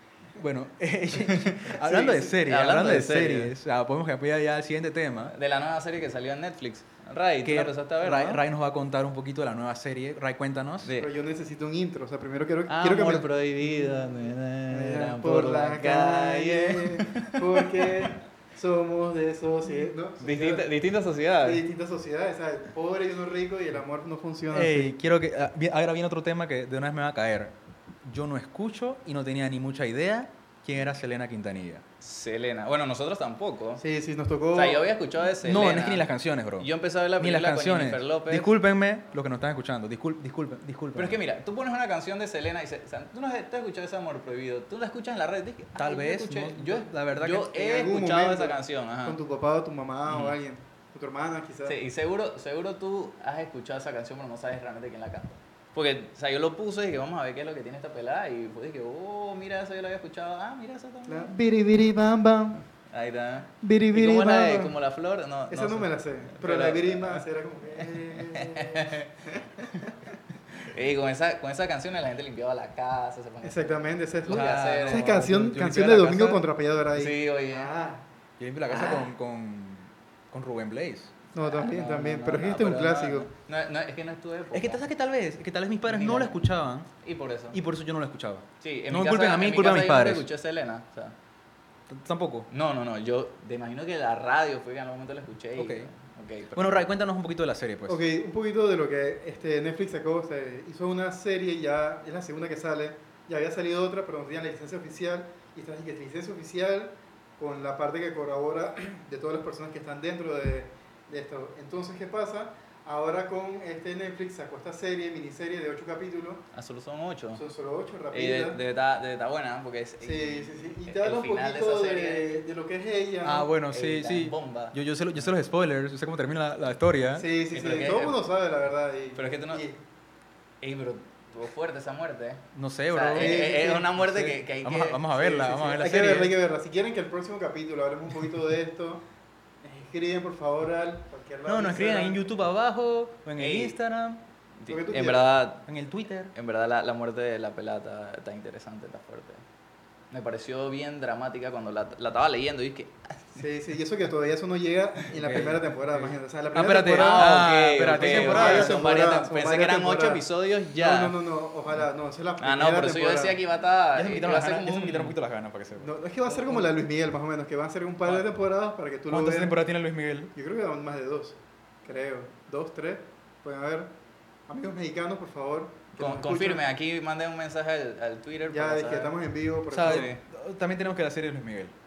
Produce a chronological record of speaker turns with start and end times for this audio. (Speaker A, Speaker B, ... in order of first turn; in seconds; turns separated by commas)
Speaker A: 0.4-5.3, Speaker B: 1.3-3.5, Speaker C: 1.8-2.3, Speaker B: 5.2-8.4, Speaker A: 7.4-10.9, Speaker B: 10.8-11.1, Speaker C: 11.0-14.2, Speaker B: 12.7-18.1, Speaker C: 14.7-20.7, Speaker B: 20.2-21.6, Speaker C: 21.4-24.9, Speaker A: 24.5-31.8, Speaker B: 32.0-33.8, Speaker C: 33.8-34.9, Speaker B: 34.5-38.5, Speaker A: 35.3-41.2, Speaker B: 41.0-49.2, Speaker A: 45.8-47.5, Speaker C: 47.5-51.8, Speaker B: 50.1-50.4, Speaker B: 51.6-61.3, Speaker C: 61.1-62.6, Speaker B: 62.9-67.2, Speaker C: 63.6-64.8, Speaker C: 65.5-69.9, Speaker B: 67.8-69.1, Speaker B: 70.5-75.2, Speaker C: 73.4-78.0, Speaker A: 74.3-76.4, Speaker B: 76.9-77.7, Speaker A: 78.4-81.1, Speaker B: 78.7-79.0, Speaker C: 81.3-83.3, Speaker B: 81.4-84.8, Speaker A: 84.5-86.9, Speaker B: 85.9-86.4, Speaker B: 87.0-87.6, Speaker A: 87.5-90.3, Speaker B: 88.6-91.2, Speaker A: 91.9-92.5, Speaker B: 92.5-96.9, Speaker A: 95.6-95.9, Speaker A: 96.5-98.0, Speaker C: 97.9-116.4, Speaker B: 116.5-117.4, Speaker C: 117.4-118.6, Speaker B: 118.1-122.4, Speaker C: 120.0-123.5, Speaker A: 123.2-127.3, Speaker B: 123.7-124.8, Speaker C: 127.2-129.8, Speaker B: 127.5-128.2, Speaker B: 129.2-129.7, Speaker B: 130.6-135.1, Speaker A: 132.5-136.3, Speaker C: 133.2-133.9, Speaker C: 135.1-139.0, Speaker C: 139.6-142.3, Speaker A: 141.5-144.2, Speaker B: 143.4-143.8, Speaker B: 144.6-145.7, Speaker C: 144.7-145.4, Speaker A: 145.7-146.3, Speaker B: 146.3-149.4, Speaker B: 150.1-153.4, Speaker C: 153.4-160.2, Speaker A: 155.1-158.8, Speaker B: 157.0-161.2, Speaker C: 160.8-163.4, Speaker B: 162.4-165.2, Speaker A: 163.9-165.9, Speaker C: 165.8-169.6, Speaker B: 166.3-166.6, Speaker A: 169.1-170.3, Speaker C: 170.4-173.9, Speaker C: 174.5-176.7, Speaker B: 176.0-179.1, Speaker C: 178.5-180.1, Speaker A: 179.7-181.7, Speaker B: 179.7-180.2